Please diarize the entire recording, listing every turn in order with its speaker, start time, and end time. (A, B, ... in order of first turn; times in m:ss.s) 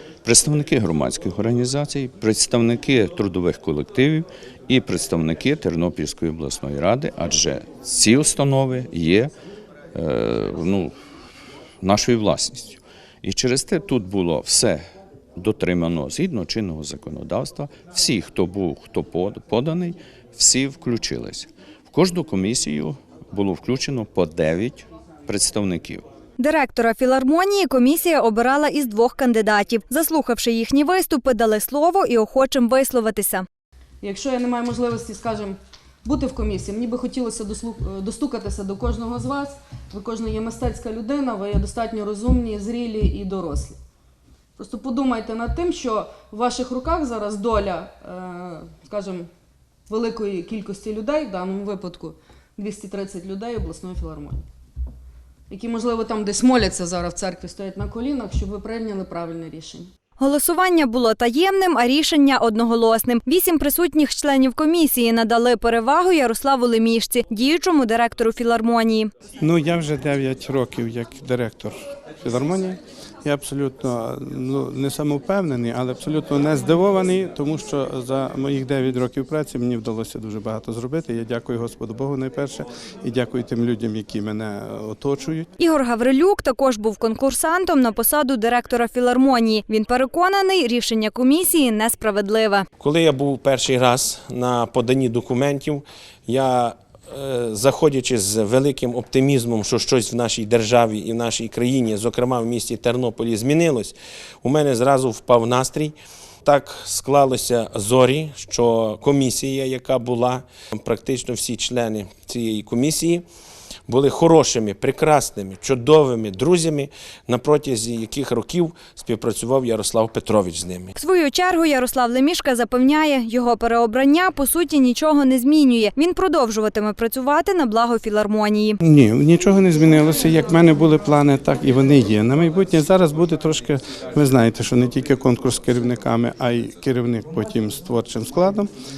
0:00.2-0:09.3 A
0:09.9-0:10.9 A
0:11.8-0:14.8 A
0:15.4-0:26.0 A
0:26.4-0:33.4 B
0:34.0-0:43.8 C
0:44.6-0:49.3 C
0:49.9-0:54.4 C
0:55.5-0:59.9 C
1:00.2-1:09.1 B
1:09.4-1:25.5 D
1:25.6-1:32.7 B
1:32.8-1:53.2 E
1:53.9-2:00.9 E
2:01.0-2:08.8 B
2:08.8-2:18.7 D